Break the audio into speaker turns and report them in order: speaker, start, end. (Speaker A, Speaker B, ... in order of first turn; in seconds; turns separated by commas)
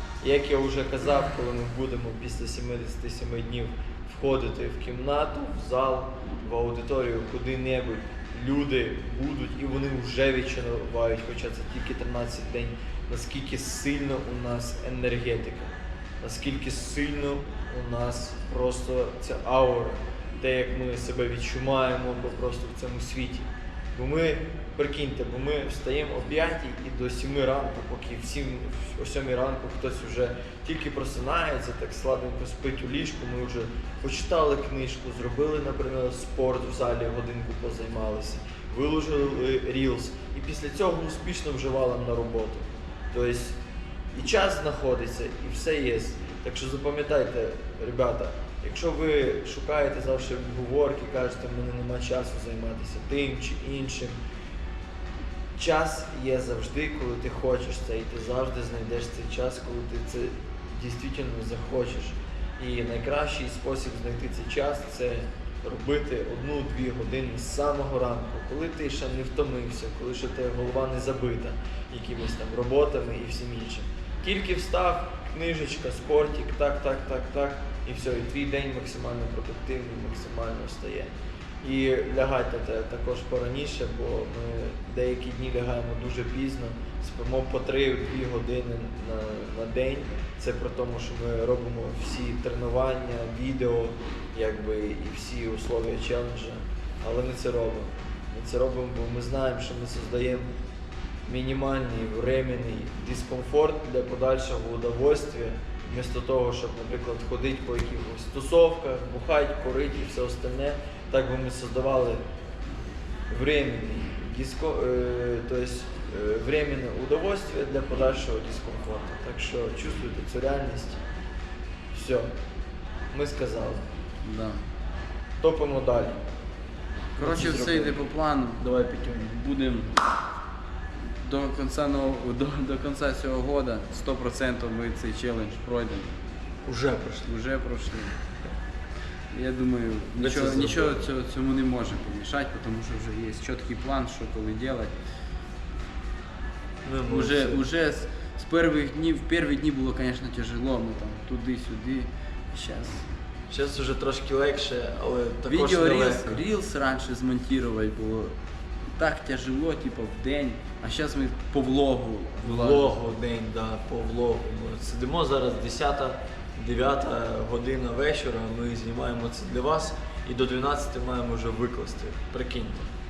Speaker A: 0.2-43.6, Speaker A: 44.1-54.2, Speaker A: 55.6-100.5, Speaker A: 101.2-112.2, Speaker A: 113.3-121.0, Speaker A: 121.9-122.3, Speaker A: 123.1-123.9, Speaker B: 124.2-124.6, Speaker A: 125.4-126.2, Speaker B: 127.2-130.0, Speaker A: 127.2-128.0, Speaker B: 131.2-136.1, Speaker A: 136.6-137.3, Speaker B: 137.2-138.2, Speaker B: 139.3-144.9, Speaker A: 140.2-141.1, Speaker A: 146.8-147.7, Speaker B: 147.1-153.1, Speaker A: 153.5-156.4, Speaker B: 155.5-158.4, Speaker B: 159.0-162.9, Speaker A: 162.4-172.9